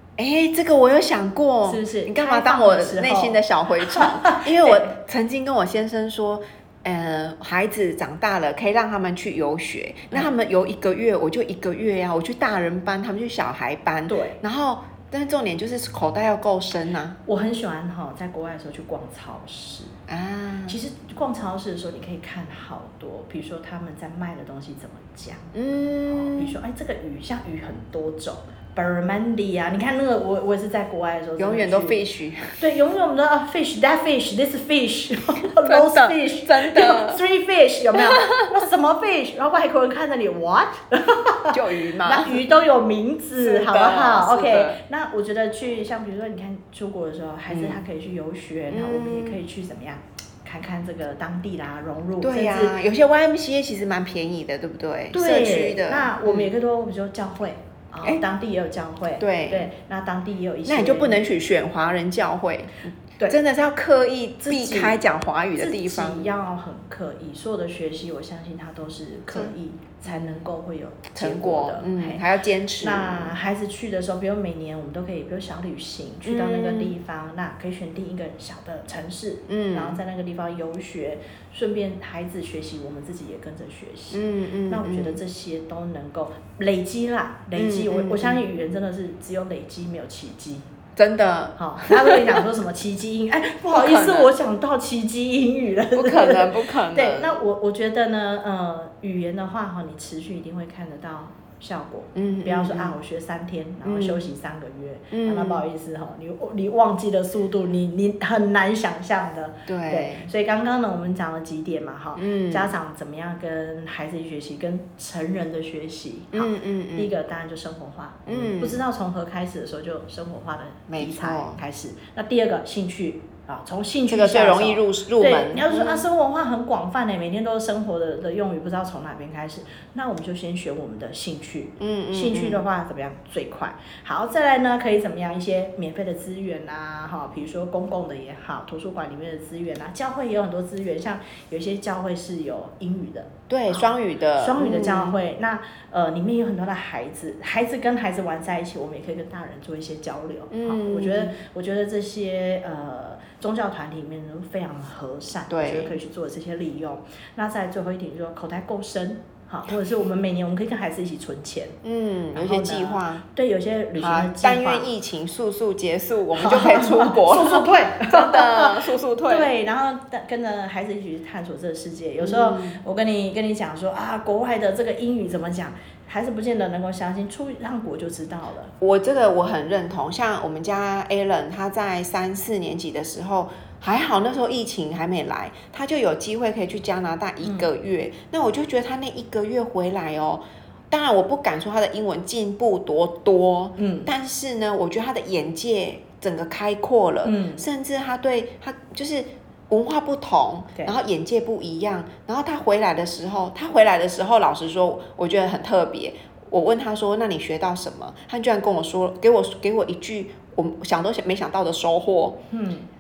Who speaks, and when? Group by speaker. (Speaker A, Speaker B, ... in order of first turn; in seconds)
Speaker A: 0.2-17.2, 20.1-20.8, 25.5-26.6, 31.4-32.6, 35.6-37.2, 38.0-38.5, 41.5-42.4, 43.4-44.8, 47.5-47.8, 48.7-49.4, 52.2-56.5, 59.2-59.7, 60.7-66.3, 71.2-73.3, 76.2-77.0, 79.5-80.0, 84.1-85.2, 87.5-88.4, 91.0-92.4, 93.7-94.3, 96.0-97.4, 102.2-103.0, 103.8-104.3, 105.1-105.7, 109.7-110.3, 112.2-112.7, 116.3-117.1, 118.3-118.8, 120.9-121.6, 124.1-126.1, 131.8-132.6, 143.5-145.2, 150.5-151.4, 155.5-155.9, 161.8-163.2, 164.0-169.5, 172.2-172.8, 178.8-212.4
Speaker B: 1.6-4.9, 14.1-14.4, 17.3-19.9, 20.7-52.8, 55.1-61.2, 64.4-65.0, 65.6-72.2, 72.8-90.7, 91.6-161.8, 162.3-164.9, 166.3-178.7, 187.4-187.7, 193.8-194.1, 197.2-197.7, 212.5-212.9